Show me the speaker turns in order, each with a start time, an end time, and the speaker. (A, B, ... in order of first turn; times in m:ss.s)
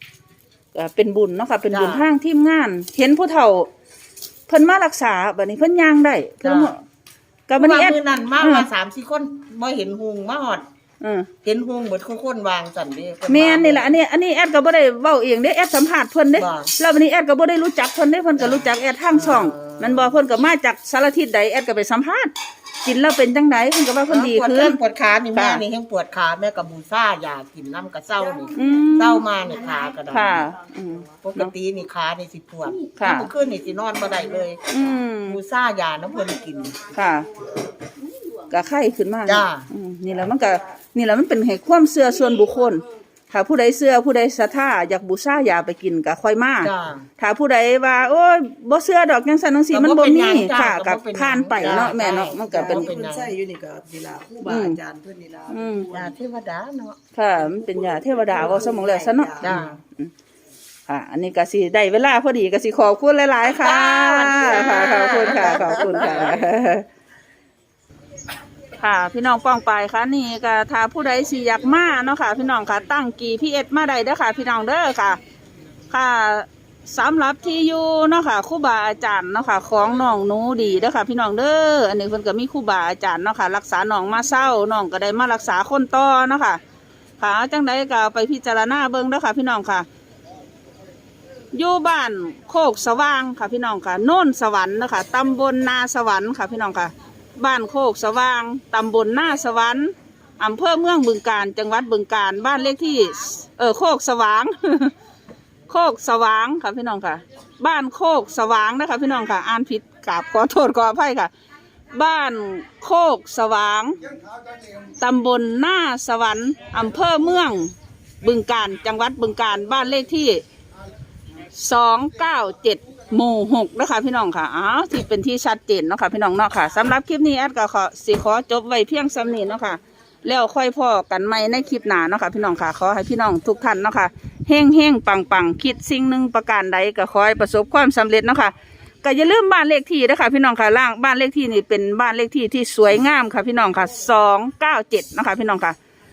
0:00.7-0:03.7 A
0:01.7-0:02.1 B
0:04.5-0:06.8 A
0:06.4-0:06.7 B
0:07.5-0:08.7 A
0:07.5-0:10.6 B
0:11.0-0:11.3 A
0:11.4-0:13.9 B
0:13.3-0:24.8 A
0:16.4-0:16.7 B
0:18.4-0:20.2 B
0:24.1-0:30.5 B
0:25.3-0:25.6 A
0:28.5-0:29.2 A
0:29.5-0:29.8 C
0:30.1-0:31.5 A
0:31.2-0:34.6 B
0:33.0-0:33.3 A
0:34.7-0:35.4 A
0:35.2-0:36.8 B
0:36.9-0:37.3 A
0:38.5-0:52.9 A
0:39.2-0:39.7 B
0:46.6-0:47.1 B
0:49.7-0:53.4 B
0:51.9-0:56.1 C
0:54.4-0:54.8 A
0:55.5-0:55.9 A
0:55.9-0:57.0 B
0:57.1-1:00.1 A
0:58.0-0:59.6 C
0:58.3-0:59.8 B
1:00.9-1:06.8 A
1:03.4-1:06.4 B
1:08.8-1:15.2 A
1:15.9-1:26.6 A
1:27.2-1:29.9 A
1:31.5-1:44.9 A
1:45.7-1:51.3 A
1:51.9-1:54.0 A
1:55.0-2:00.4 A
2:01.5-2:25.8 A